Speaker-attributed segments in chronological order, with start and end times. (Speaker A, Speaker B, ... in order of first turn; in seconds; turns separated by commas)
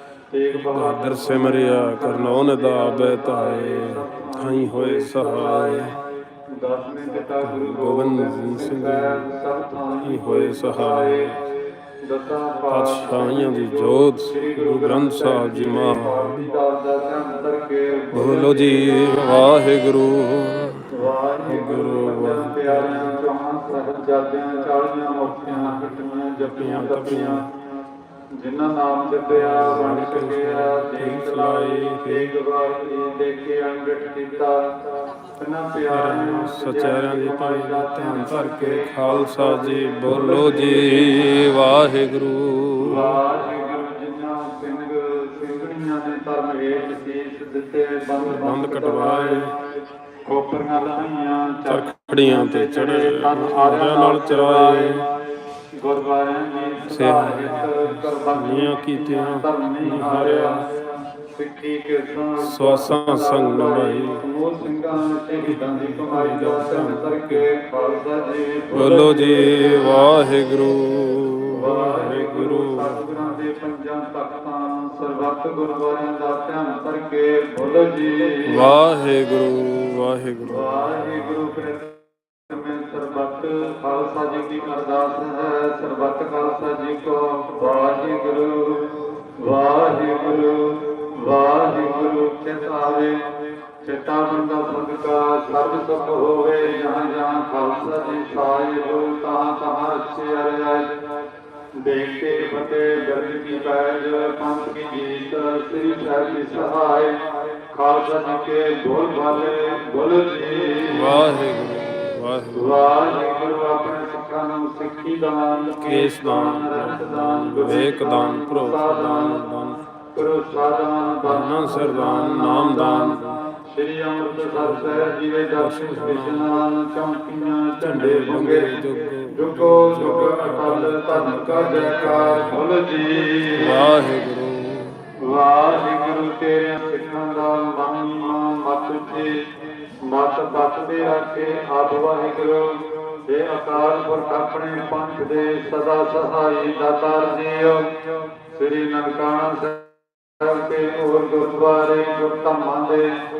Speaker A: 0.3-11.5, Speaker B: 0.5-6.0, Speaker B: 7.4-9.2, Speaker B: 10.0-11.4, Speaker A: 12.0-19.5, Speaker B: 12.7-16.5, Speaker B: 18.1-20.9, Speaker A: 20.9-27.6, Speaker B: 21.4-23.2, Speaker B: 25.5-27.4, Speaker A: 28.4-34.7, Speaker B: 29.3-32.3, Speaker A: 35.4-41.5, Speaker B: 35.9-43.2, Speaker A: 42.8-55.2, Speaker B: 48.2-49.5, Speaker B: 51.7-55.1, Speaker A: 55.8-70.1, Speaker B: 56.9-60.6, Speaker B: 62.4-64.2, Speaker B: 65.4-67.5, Speaker B: 68.7-73.4, Speaker A: 71.5-78.7, Speaker B: 78.5-80.9, Speaker A: 80.5-101.1, Speaker A: 101.8-111.3, Speaker B: 110.9-112.8, Speaker A: 112.5-119.4, Speaker B: 115.8-119.8, Speaker A: 120.1-133.9, Speaker B: 121.2-123.4, Speaker B: 124.3-126.5, Speaker B: 127.8-132.7, Speaker B: 133.6-135.1, Speaker A: 135.2-153.2